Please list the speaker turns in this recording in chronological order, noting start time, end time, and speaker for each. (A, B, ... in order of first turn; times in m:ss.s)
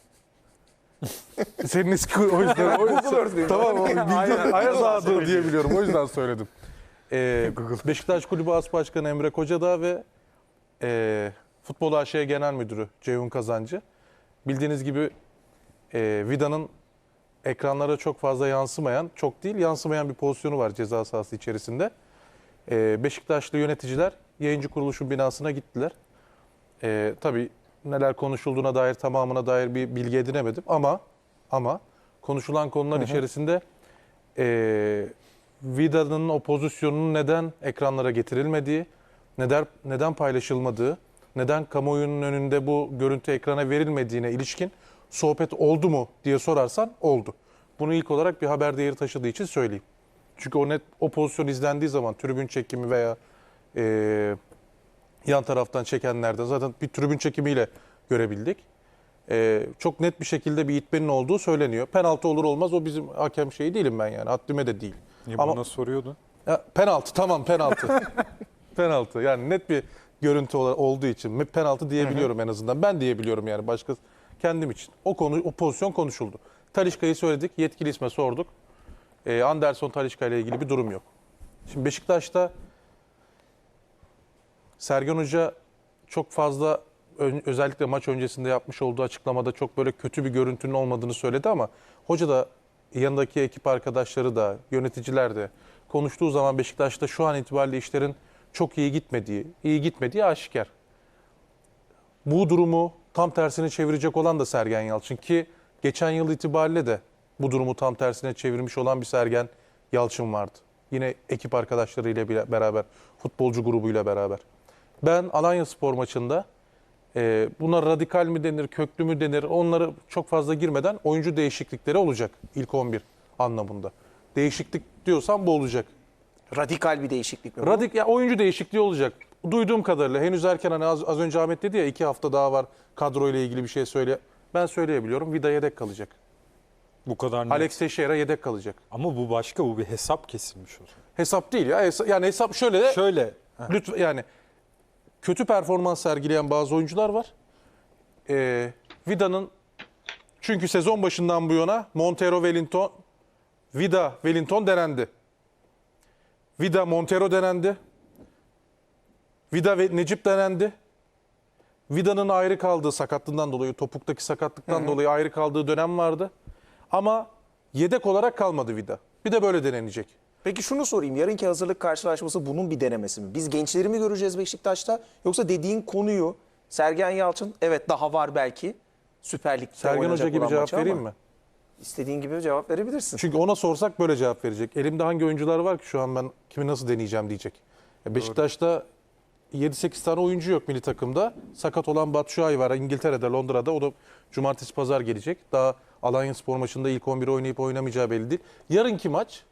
0:01.6-0:06.5 A
0:02.6-0:05.9 B
0:07.1-0:10.0 A
0:10.8-0:13.8 A
0:14.4-0:15.1 A
0:15.9-0:16.7 A
0:17.4-0:21.9 A
0:22.7-0:25.9 A
0:26.8-0:33.6 A
0:32.9-0:33.2 B
0:34.4-0:49.8 A
0:50.4-0:53.2 A
0:53.7-0:54.4 A
0:55.2-0:58.6 A
0:59.3-1:05.6 A
1:05.3-1:06.2 C
1:06.4-1:18.5 A
1:19.2-1:21.1 A
1:21.7-1:22.5 A
1:24.8-1:25.5 A
1:26.1-1:40.7 A
1:42.2-1:54.4 A
1:55.0-1:56.4 A
1:57.1-2:05.9 A
2:06.5-2:07.9 B
2:07.6-2:16.1 A
2:17.0-2:17.7 C
2:17.5-2:18.8 A
2:18.9-2:20.9 C
2:21.2-2:23.0 A
2:22.9-2:23.7 C
2:23.7-2:24.2 A
2:25.2-2:27.3 A
2:28.3-2:29.5 A
2:30.4-2:33.0 A
2:33.7-2:35.1 A
2:36.6-2:37.8 A
2:39.5-2:40.7 A
2:41.9-2:46.3 A
2:44.7-2:44.9 B
2:46.9-2:50.1 A
2:50.4-3:01.0 B
2:59.8-3:01.1 A
3:01.8-3:03.2 B
3:03.2-3:08.8 A
3:09.5-3:19.4 A